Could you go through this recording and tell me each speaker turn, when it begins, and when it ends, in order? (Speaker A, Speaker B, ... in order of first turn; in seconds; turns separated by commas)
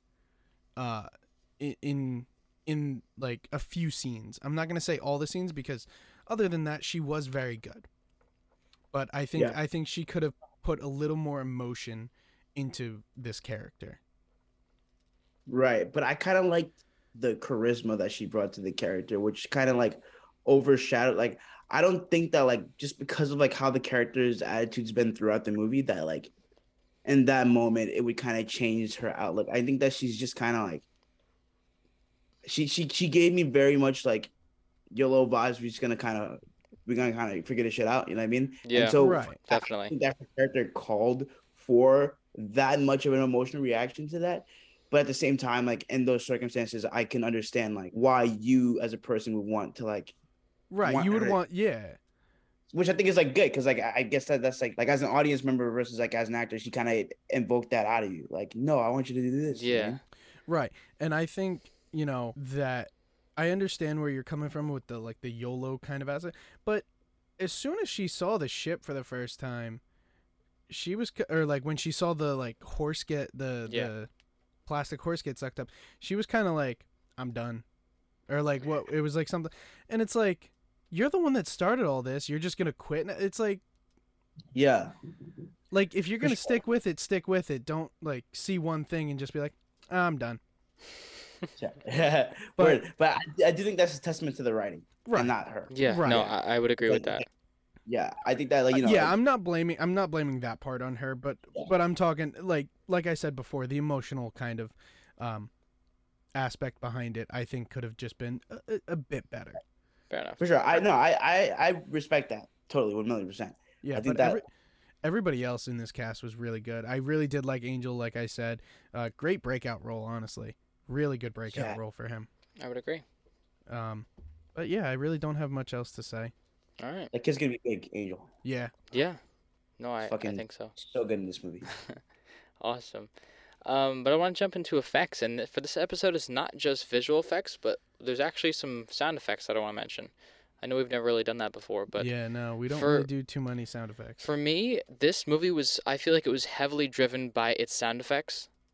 Speaker A: 0.8-7.9, Speaker A: 8.9-14.0, Speaker B: 15.5-26.3, Speaker B: 27.1-30.9, Speaker B: 32.5-34.3, Speaker B: 34.9-50.1, Speaker C: 38.7-39.9, Speaker A: 39.0-39.4, Speaker A: 50.7-52.0, Speaker B: 50.8-51.4, Speaker B: 52.7-60.0, Speaker C: 59.5-60.0, Speaker A: 60.5-66.8, Speaker A: 67.4-69.8, Speaker A: 70.7-74.1, Speaker C: 73.7-73.9, Speaker A: 74.7-77.6, Speaker A: 78.3-83.6, Speaker B: 84.5-84.9, Speaker A: 85.7-90.4, Speaker B: 86.2-86.6, Speaker B: 91.6-96.3, Speaker A: 95.1-95.3, Speaker C: 95.7-97.2, Speaker A: 95.8-96.2, Speaker B: 96.9-97.2, Speaker B: 97.9-99.2, Speaker A: 98.7-105.5, Speaker A: 106.3-109.6, Speaker C: 110.1-110.4, Speaker B: 110.4-114.4, Speaker A: 113.8-114.5, Speaker A: 115.0-122.3, Speaker B: 121.5-121.8, Speaker C: 122.6-123.0, Speaker A: 123.7-126.3, Speaker C: 126.8-127.1, Speaker B: 127.1-128.3, Speaker A: 128.4-128.7, Speaker C: 128.9-129.2, Speaker C: 129.8-130.8, Speaker B: 130.1-131.7, Speaker C: 131.7-132.0, Speaker C: 132.6-133.1, Speaker C: 133.6-142.1, Speaker A: 141.9-144.3, Speaker C: 142.7-143.1, Speaker C: 144.2-148.5